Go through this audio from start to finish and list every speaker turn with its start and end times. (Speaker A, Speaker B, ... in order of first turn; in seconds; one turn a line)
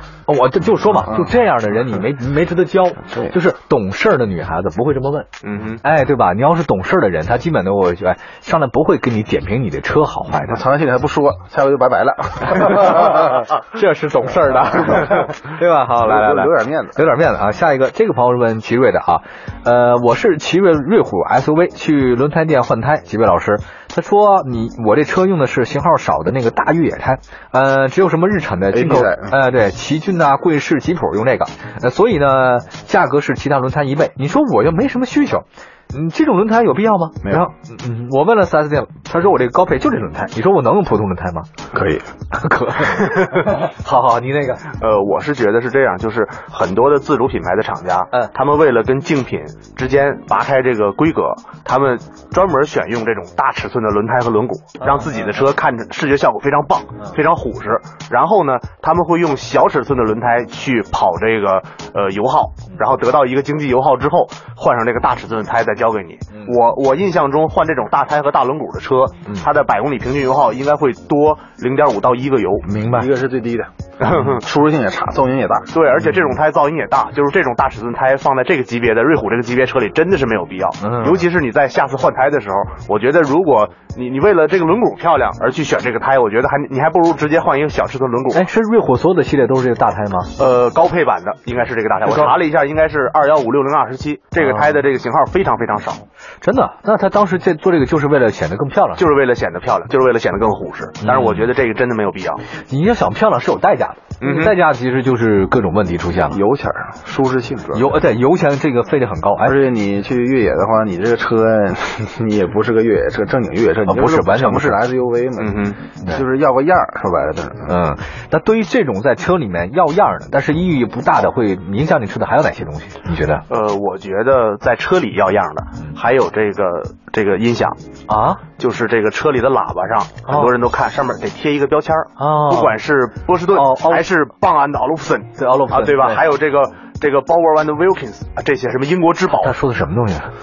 Speaker A: 0.3-5.3
Speaker B: 0.9-1.3
Speaker B: 3.1-3.4
Speaker C: 5.4-5.8
Speaker A: 5.8-10.6
Speaker B: 10.5-13.5
Speaker A: 12.5-41.5
Speaker B: 14.9-15.2
Speaker B: 16.0-17.0
Speaker B: 28.7-29.4
Speaker B: 41.7-42.1
Speaker A: 42.3-44.7
Speaker C: 43.1-43.5
Speaker C: 44.7-72.7
Speaker A: 72.7-73.1
Speaker B: 72.8-75.8
Speaker C: 74.0-74.4
Speaker C: 75.7-88.5
Speaker A: 80.8-81.3
Speaker A: 88.3-90.3
Speaker C: 90.4-96.0
Speaker A: 92.0-92.4
Speaker A: 94.4-94.8
Speaker A: 96.4-99.0
Speaker C: 99.0-102.4
Speaker A: 101.0-101.5
Speaker A: 102.7-106.4
Speaker C: 104.2-104.6
Speaker B: 106.3-108.0
Speaker A: 107.7-109.6
Speaker B: 109.4-117.8
Speaker A: 113.9-114.8
Speaker C: 115.4-115.8
Speaker A: 117.7-123.5
Speaker C: 123.5-127.8
Speaker A: 128.1-128.4
Speaker C: 128.5-139.6
Speaker A: 130.3-130.5
Speaker A: 132.2-132.8
Speaker A: 133.5-134.1
Speaker A: 135.4-136.2
Speaker A: 139.4-140.3